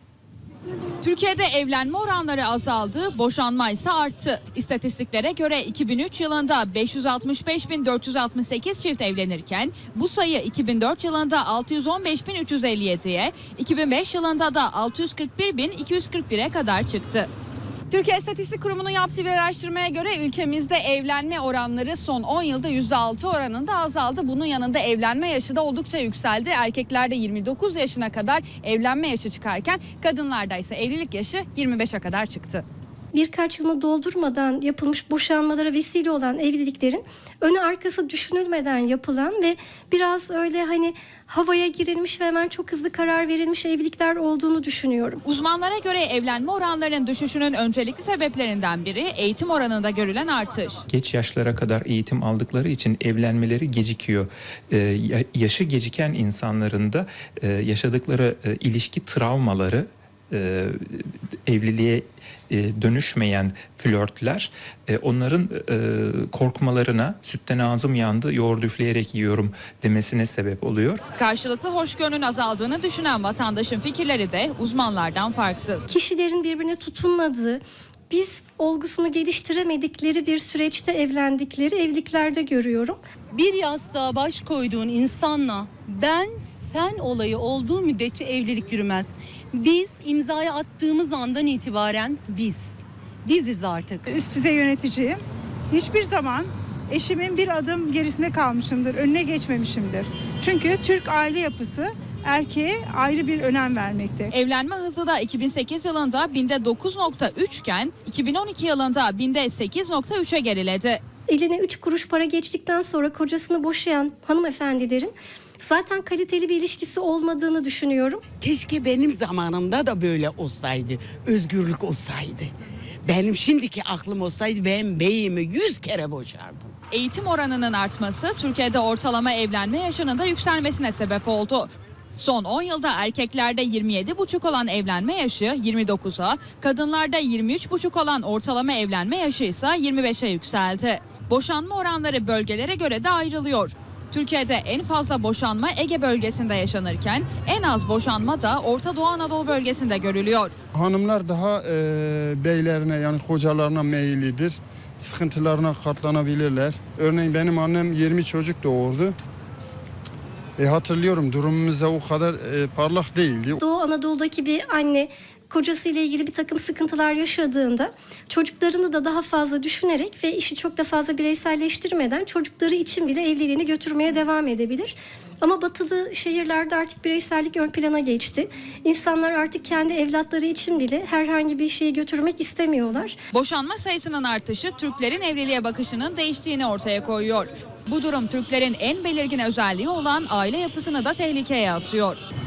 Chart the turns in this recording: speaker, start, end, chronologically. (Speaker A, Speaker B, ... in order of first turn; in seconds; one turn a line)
Speaker A: 1.0-17.3
Speaker A: 17.9-32.6
Speaker B: 33.1-45.2
Speaker A: 45.2-50.8
Speaker C: 50.9-71.0
Speaker A: 71.1-75.9
Speaker B: 75.9-83.0
Speaker D: 83.3-94.0
Speaker E: 94.1-95.2
Speaker E: 95.7-104.3
Speaker A: 104.3-111.0
Speaker B: 111.3-118.2
Speaker F: 118.4-122.5
Speaker F: 123.0-126.7
Speaker A: 126.9-150.5
Speaker G: 150.7-159.2
Speaker G: 160.6-163.6
Speaker B: 163.6-183.2
Speaker A: 183.3-192.2